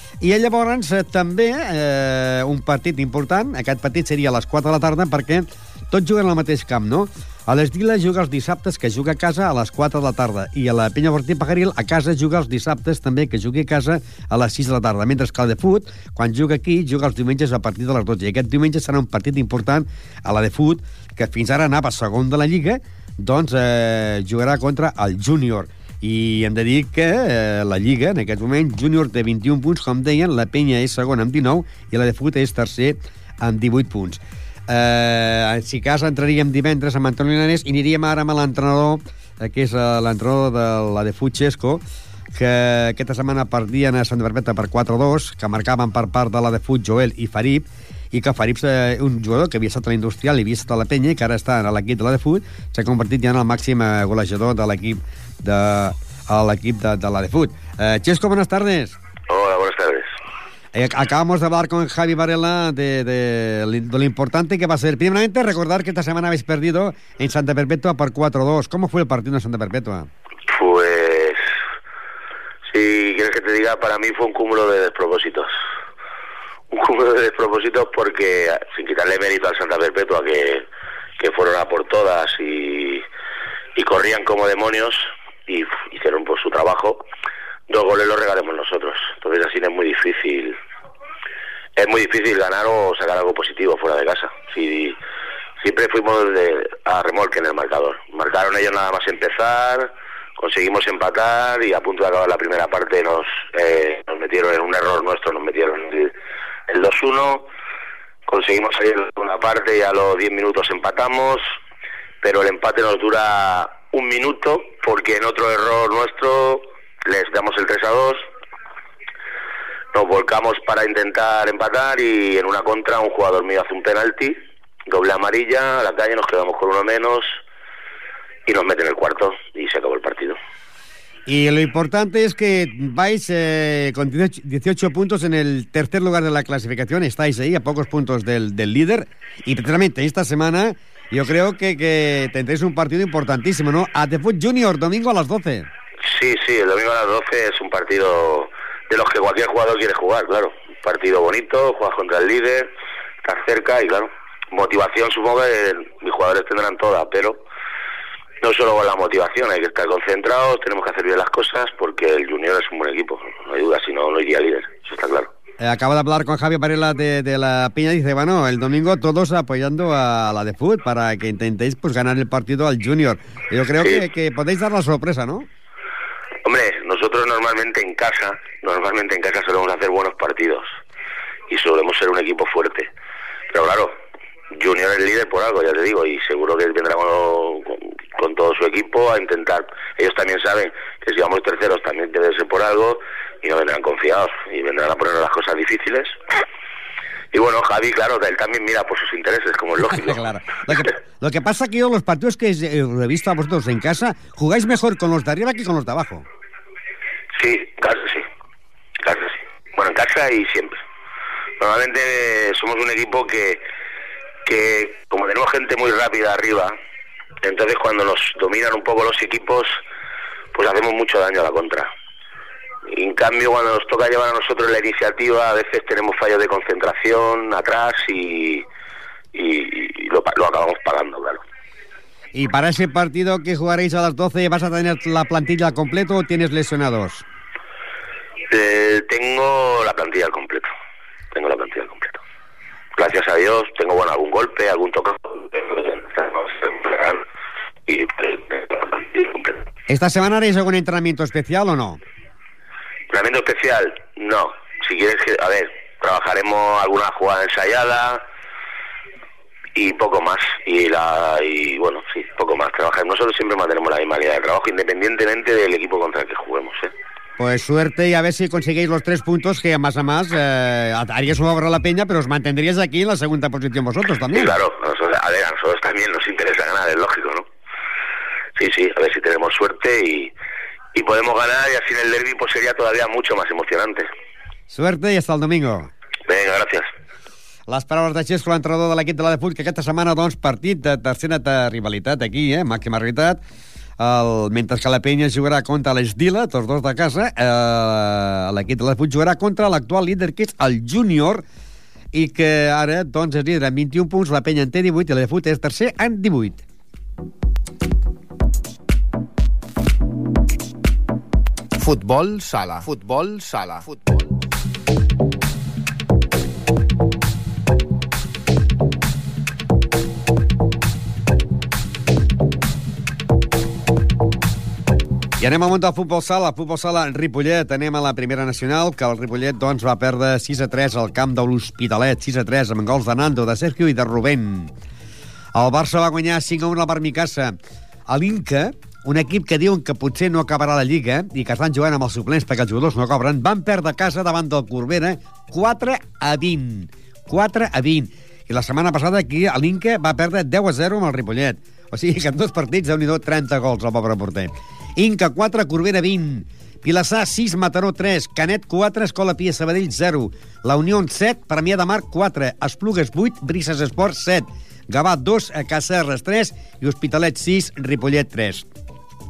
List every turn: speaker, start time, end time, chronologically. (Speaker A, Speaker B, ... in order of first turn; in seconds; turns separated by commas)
Speaker A: 0.2-41.8, Speaker A: 42.3-59.0, Speaker B: 59.3-60.1, Speaker A: 60.7-70.1, Speaker B: 70.5-71.5, Speaker B: 72.7-75.5, Speaker B: 76.7-80.6, Speaker B: 81.2-83.0, Speaker B: 83.8-87.0, Speaker B: 87.7-90.5, Speaker B: 91.8-95.0, Speaker B: 95.6-106.1, Speaker B: 106.7-107.5, Speaker B: 108.3-111.4, Speaker B: 112.2-118.2, Speaker B: 119.9-127.4, Speaker B: 128.4-130.4, Speaker A: 131.2-145.7, Speaker B: 146.0-152.7, Speaker B: 153.2-157.4, Speaker B: 158.4-165.3, Speaker A: 165.6-175.5, Speaker B: 176.4-180.7, Speaker B: 181.5-182.9, Speaker B: 183.5-183.9, Speaker B: 184.5-196.2, Speaker B: 197.3-200.9, Speaker A: 199.9-206.2, Speaker B: 207.3-208.2, Speaker B: 209.0-210.8, Speaker B: 211.6-213.6, Speaker B: 214.4-216.7, Speaker B: 217.4-219.8, Speaker B: 220.5-221.9, Speaker B: 222.9-228.6, Speaker B: 229.3-231.4, Speaker A: 232.3-237.2, Speaker B: 238.5-240.7, Speaker B: 241.3-242.2, Speaker B: 242.9-247.2, Speaker B: 247.9-249.6, Speaker A: 249.9-252.0, Speaker B: 253.1-258.2, Speaker B: 259.7-266.9, Speaker A: 267.4-274.6, Speaker B: 274.3-277.5, Speaker B: 278.6-280.3, Speaker B: 280.9-284.1, Speaker A: 284.7-285.9, Speaker B: 286.3-286.9, Speaker A: 287.7-293.4, Speaker A: 294.0-301.4, Speaker A: 302.1-306.6, Speaker C: 311.8-314.3, Speaker A: 325.4-334.7, Speaker A: 335.5-337.6, Speaker A: 338.1-368.6